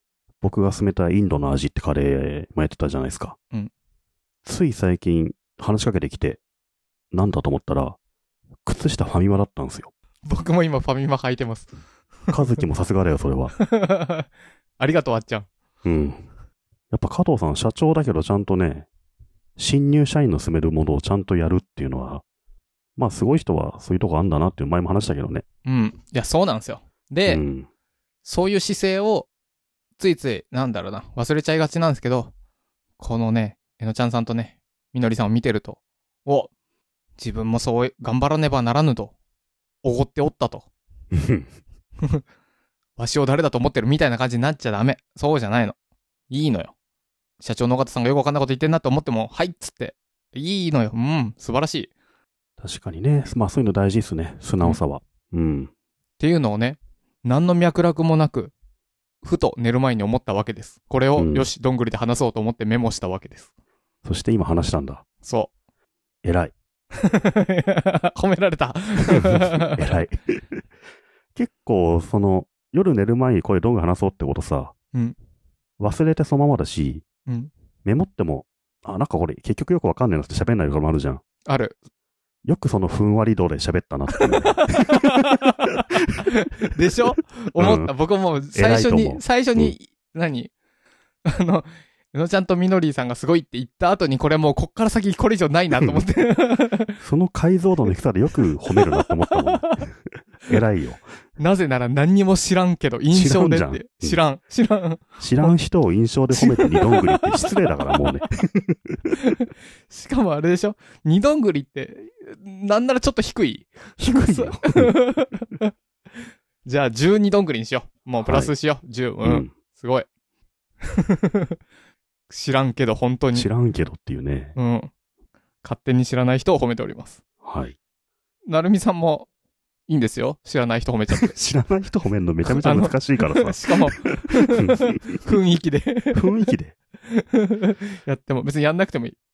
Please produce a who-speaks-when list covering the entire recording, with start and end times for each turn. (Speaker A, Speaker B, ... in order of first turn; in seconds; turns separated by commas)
Speaker A: 0.4-3.4, Speaker A: 4.5-6.4, Speaker A: 7.1-8.0, Speaker A: 8.6-9.9, Speaker B: 10.2-11.7, Speaker A: 12.3-13.5, Speaker B: 13.6-14.3, Speaker B: 14.8-15.5, Speaker A: 15.8-16.2, Speaker A: 16.9-18.9, Speaker A: 19.6-22.2, Speaker A: 23.0-25.4, Speaker B: 25.6-27.4, Speaker A: 27.2-27.7, Speaker B: 28.2-29.3, Speaker B: 30.0-32.3, Speaker B: 33.0-36.5, Speaker B: 37.2-39.1, Speaker B: 39.8-40.7, Speaker A: 41.1-41.5, Speaker B: 43.0-45.8, Speaker B: 46.3-46.7, Speaker B: 47.4-51.9, Speaker A: 52.6-55.7, Speaker B: 56.2-58.5, Speaker B: 59.2-63.5, Speaker A: 61.2-61.5, Speaker A: 64.0-65.0, Speaker B: 65.2-65.5, Speaker A: 66.2-66.5, Speaker B: 67.0-69.8, Speaker A: 69.2-70.6, Speaker A: 71.4-74.7, Speaker A: 75.8-77.0, Speaker A: 77.8-81.2, Speaker B: 81.5-81.8, Speaker A: 82.5-85.1, Speaker B: 84.6-90.5, Speaker A: 87.6-87.9, Speaker A: 88.5-89.8, Speaker B: 91.3-97.0, Speaker A: 95.8-96.0, Speaker A: 97.0-99.9, Speaker B: 99.4-99.8, Speaker A: 100.5-101.0, Speaker B: 101.4-105.5, Speaker A: 103.1-104.2, Speaker A: 105.2-109.1, Speaker B: 106.3-107.5, Speaker B: 109.9-115.7, Speaker A: 114.0-115.0, Speaker B: 116.7-120.1, Speaker A: 118.2-118.5, Speaker A: 119.2-119.5, Speaker B: 120.8-121.6, Speaker B: 122.3-123.5, Speaker A: 123.3-124.6, Speaker B: 124.6-124.9, Speaker B: 125.6-127.2, Speaker A: 127.4-127.8, Speaker B: 128.5-129.3, Speaker B: 129.9-131.3, Speaker A: 131.1-135.2, Speaker B: 132.5-136.3, Speaker A: 136.1-136.8, Speaker B: 137.1-139.2